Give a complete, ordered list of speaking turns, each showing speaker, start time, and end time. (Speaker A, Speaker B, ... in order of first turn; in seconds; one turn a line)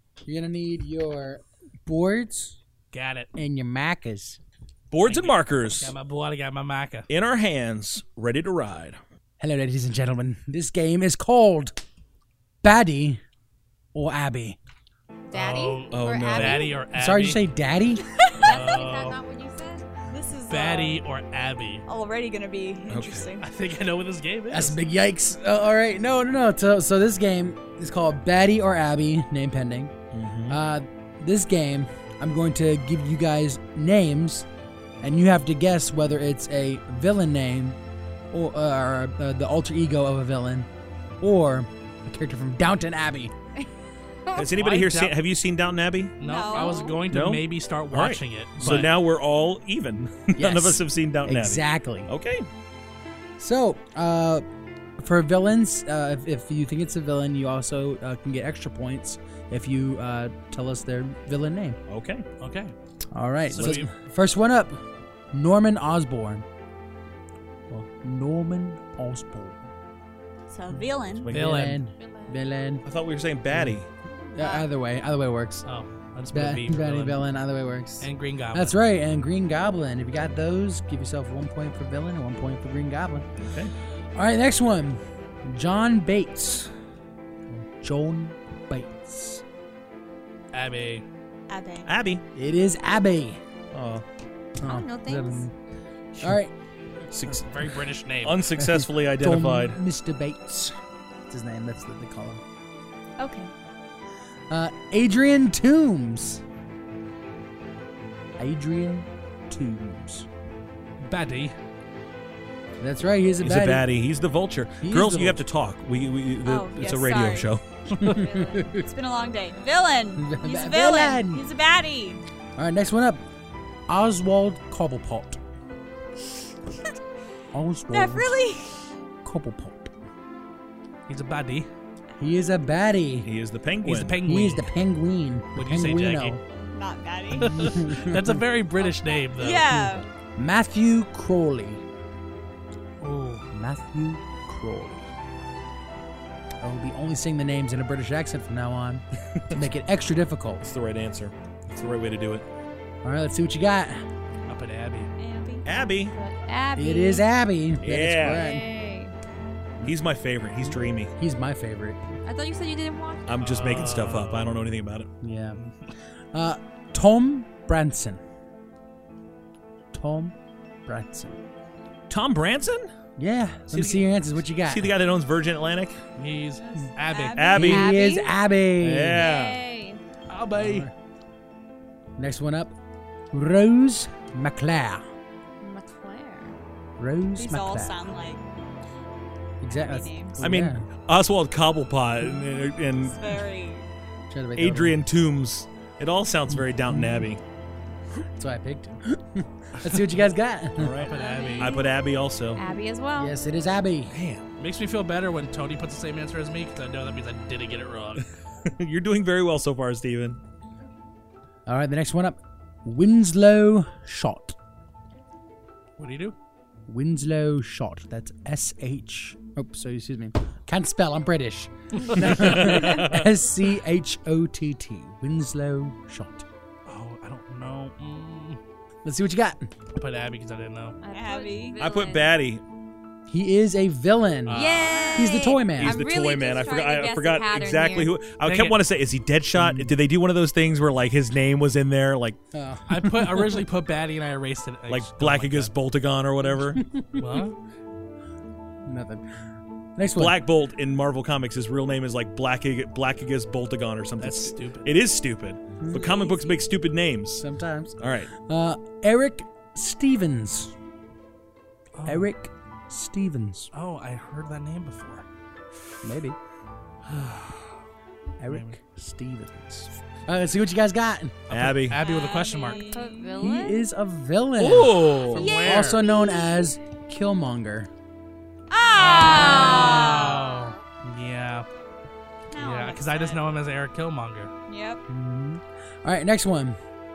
Speaker A: 0.2-2.6
Speaker B: 2.9-3.3
Speaker A: 3.4-4.4
Speaker C: 4.9-6.0
Speaker B: 5.0-7.1
Speaker C: 7.1-9.0
Speaker A: 9.4-11.8
Speaker A: 12.6-13.2
Speaker A: 13.9-14.6
Speaker D: 15.3-16.7
Speaker B: 15.3-17.4
Speaker C: 15.9-16.7
Speaker A: 16.9-18.1
Speaker D: 18.4-19.9
Speaker B: 18.4-19.2
Speaker E: 20.1-21.0
Speaker B: 20.5-21.8
Speaker E: 21.9-23.5
Speaker C: 22.9-23.3
Speaker B: 23.4-24.8
Speaker A: 24.5-29.9
Speaker C: 30.1-30.6
Speaker A: 30.5-34.5
Speaker A: 35.0-37.8
Speaker A: 38.3-40.7
Speaker A: 41.2-43.3
Speaker C: 44.3-46.2
Speaker B: 44.5-45.1
Speaker B: 46.2-48.9
Speaker E: 46.2-47.0
Speaker D: 46.4-47.0
Speaker C: 47.1-52.5
Speaker A: 48.6-48.9
Speaker A: 50.4-52.1
Speaker A: 53.4-54.5
Speaker A: 55.0-61.8
Speaker C: 61.9-62.3
Speaker B: 62.4-62.7
Speaker A: 63.1-66.5
Speaker B: 63.5-63.9
Speaker C: 63.6-63.8
Speaker A: 67.8-69.6
Speaker E: 70.5-71.3
Speaker C: 71.2-71.4
Speaker B: 71.3-71.8
Speaker A: 71.3-72.8
Speaker D: 72.0-72.5
Speaker C: 72.9-73.9
Speaker A: 73.5-73.8
Speaker A: 74.3-75.7
Speaker E: 74.4-74.7
Speaker B: 75.7-77.2
Speaker A: 76.3-83.3
Speaker B: 78.0-78.8
Speaker C: 83.4-83.7
Speaker A: 84.2-86.7
Speaker A: 87.5-89.4
Speaker B: 90.5-91.0
Speaker E: 91.5-91.9
Speaker C: 91.9-92.2
Speaker A: 92.3-93.4
Speaker C: 93.7-94.0
Speaker A: 94.6-95.5
Speaker D: 94.6-95.5
Speaker A: 96.2-96.5
Speaker C: 97.1-97.5
Speaker B: 97.3-98.4
Speaker C: 98.2-99.8
Speaker A: 98.6-100.7
Speaker A: 101.3-102.4
Speaker D: 103.2-103.5
Speaker A: 104.5-106.4
Speaker A: 108.4-110.3
Speaker B: 111.0-111.5
Speaker A: 112.8-113.9
Speaker C: 113.4-117.6
Speaker A: 114.8-115.5
Speaker E: 116.4-117.5
Speaker A: 117.9-118.9
Speaker D: 118.0-118.8
Speaker E: 118.7-122.2
Speaker A: 120.2-121.4
Speaker A: 122.6-123.2
Speaker A: 123.9-125.4
Speaker A: 127.5-128.3
Speaker E: 127.9-128.8
Speaker A: 129.2-129.9
Speaker B: 131.1-131.7
Speaker A: 132.2-133.3
Speaker C: 133.2-134.2
Speaker B: 133.8-134.7
Speaker A: 134.2-136.4
Speaker B: 135.6-136.4
Speaker E: 136.7-137.6
Speaker B: 137.4-139.7
Speaker A: 137.4-138.4
Speaker E: 138.8-140.1
Speaker A: 139.7-141.8
Speaker B: 143.0-143.5
Speaker A: 143.5-145.1
Speaker A: 146.6-150.7
Speaker C: 150.6-152.5
Speaker A: 153.0-154.0
Speaker B: 154.5-155.1
Speaker E: 155.2-155.7
Speaker C: 155.7-156.2
Speaker D: 155.7-157.3
Speaker A: 156.8-158.7
Speaker C: 157.8-158.5
Speaker D: 158.3-159.1
Speaker C: 159.8-161.1
Speaker A: 160.6-162.0
Speaker D: 162.2-163.4
Speaker C: 163.3-165.1
Speaker B: 163.4-164.6
Speaker A: 165.2-165.6
Speaker A: 166.3-168.2
Speaker A: 169.9-170.3
Speaker A: 170.9-171.4
Speaker C: 172.1-172.9
Speaker A: 173.2-174.9
Speaker C: 173.7-174.1
Speaker C: 174.6-176.0
Speaker B: 176.2-177.4
Speaker E: 176.8-177.8
Speaker C: 177.3-177.9
Speaker A: 177.5-179.3
Speaker D: 177.6-178.3
Speaker C: 178.8-179.7
Speaker D: 179.2-180.0
Speaker B: 180.3-180.9
Speaker A: 180.6-180.9
Speaker A: 182.2-182.8
Speaker A: 183.3-185.0
Speaker D: 185.6-186.6
Speaker A: 187.0-188.2
Speaker E: 187.4-188.4
Speaker A: 189.6-190.9
Speaker E: 189.7-190.4
Speaker C: 190.4-193.2
Speaker E: 193.0-193.9
Speaker A: 194.3-195.0
Speaker C: 194.6-197.4
Speaker A: 196.9-197.3
Speaker A: 198.3-201.1
Speaker C: 200.8-202.6
Speaker B: 201.0-201.8
Speaker E: 201.2-201.6
Speaker D: 201.2-201.9
Speaker D: 202.6-203.4
Speaker A: 203.2-204.2
Speaker C: 204.1-204.4
Speaker B: 204.6-208.3
Speaker C: 208.6-210.4
Speaker A: 211.7-214.6
Speaker B: 216.0-216.4
Speaker A: 216.9-226.5
Speaker C: 222.4-223.3
Speaker B: 226.9-228.6
Speaker A: 229.0-229.6
Speaker B: 229.9-231.0
Speaker D: 231.0-232.4
Speaker E: 231.1-231.8
Speaker C: 231.8-232.6
Speaker A: 233.3-236.0
Speaker B: 234.5-235.0
Speaker D: 234.5-238.2
Speaker E: 234.7-235.4
Speaker C: 235.8-242.4
Speaker B: 238.4-238.8
Speaker A: 239.5-240.0
Speaker A: 242.5-243.6
Speaker B: 242.9-245.7
Speaker C: 244.9-246.8
Speaker A: 246.8-247.4
Speaker B: 247.2-247.6
Speaker A: 248.9-249.3
Speaker A: 250.0-250.4
Speaker C: 250.1-257.4
Speaker B: 254.2-254.9
Speaker A: 255.8-256.2
Speaker A: 257.4-260.7
Speaker C: 258.0-258.3
Speaker B: 262.0-262.3
Speaker A: 262.1-263.7
Speaker B: 263.7-265.3
Speaker A: 266.0-266.4
Speaker B: 267.1-267.8
Speaker A: 268.4-271.4
Speaker B: 268.5-268.8
Speaker B: 271.5-272.9
Speaker C: 271.5-272.0
Speaker E: 272.0-273.5
Speaker D: 272.6-273.9
Speaker A: 273.4-277.9
Speaker C: 274.6-275.5
Speaker D: 275.4-276.7
Speaker E: 275.4-275.9
Speaker B: 275.4-276.0
Speaker E: 278.7-280.6
Speaker B: 278.9-281.7
Speaker D: 279.6-280.8
Speaker E: 282.5-283.4
Speaker B: 282.6-284.5
Speaker E: 284.7-285.0
Speaker A: 285.1-286.8